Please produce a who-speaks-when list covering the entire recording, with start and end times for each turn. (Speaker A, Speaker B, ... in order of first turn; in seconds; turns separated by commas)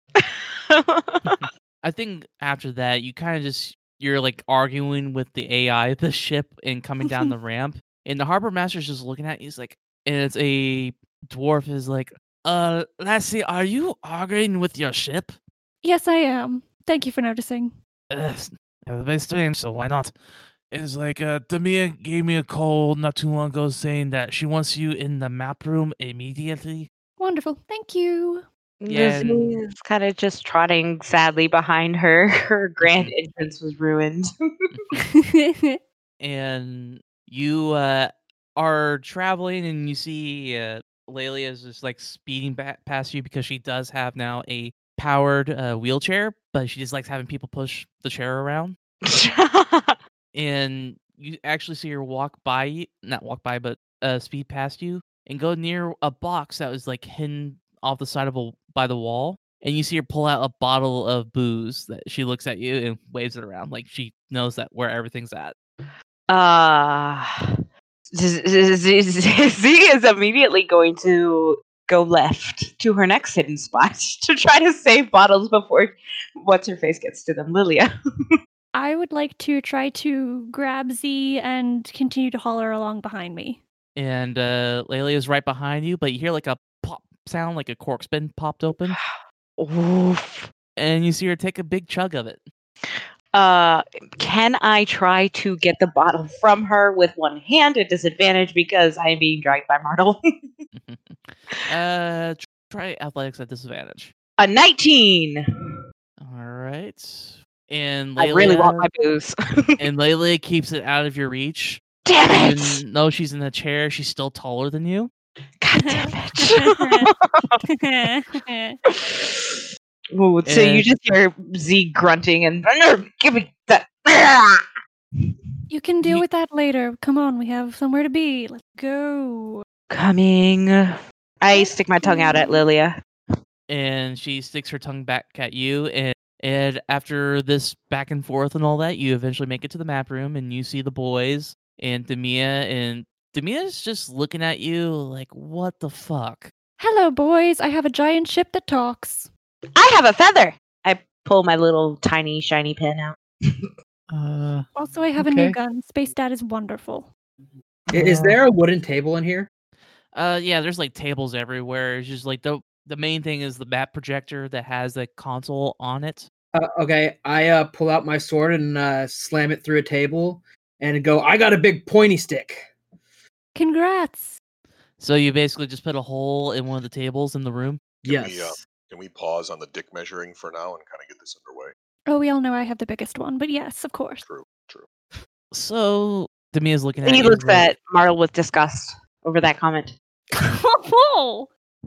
Speaker A: 1.3-15.4, Speaker B: 15.8-17.7, Speaker A: 18.1-20.1, Speaker A: 20.7-26.9, Speaker B: 27.2-28.4, Speaker C: 28.8-34.2, Speaker A: 28.9-29.6, Speaker A: 32.8-33.1, Speaker A: 34.7-35.0, Speaker B: 34.9-35.8, Speaker A: 36.2-48.8, Speaker C: 49.1-49.9, Speaker A: 50.3-65.6, Speaker C: 66.3-67.2, Speaker C: 68.2-75.9, Speaker C: 76.4-77.8, Speaker B: 78.7-83.6, Speaker A: 84.0-89.0, Speaker C: 89.6-90.5, Speaker A: 90.8-92.4, Speaker C: 93.3-100.2, Speaker A: 100.8-104.1, Speaker C: 104.4-105.3, Speaker A: 106.2-108.9, Speaker C: 108.2-109.3, Speaker A: 109.8-115.1, Speaker C: 112.1-112.7, Speaker C: 115.7-117.6, Speaker B: 115.8-117.1, Speaker B: 117.7-118.8, Speaker C: 120.2-124.5, Speaker A: 120.5-120.9, Speaker B: 125.7-129.6, Speaker C: 129.9-130.7, Speaker C: 131.4-132.9, Speaker B: 131.5-132.7, Speaker A: 133.7-146.5, Speaker B: 146.8-149.3, Speaker C: 149.8-153.2, Speaker D: 154.1-155.6, Speaker B: 154.8-157.1, Speaker D: 157.9-158.4, Speaker E: 157.9-159.5, Speaker A: 160.1-166.3, Speaker E: 166.6-172.7, Speaker B: 173.6-174.4, Speaker A: 175.0-177.8, Speaker E: 178.1-178.6, Speaker F: 178.1-181.7, Speaker B: 182.1-184.2, Speaker F: 184.2-184.9, Speaker A: 185.5-187.7, Speaker C: 187.0-189.9, Speaker B: 190.3-191.5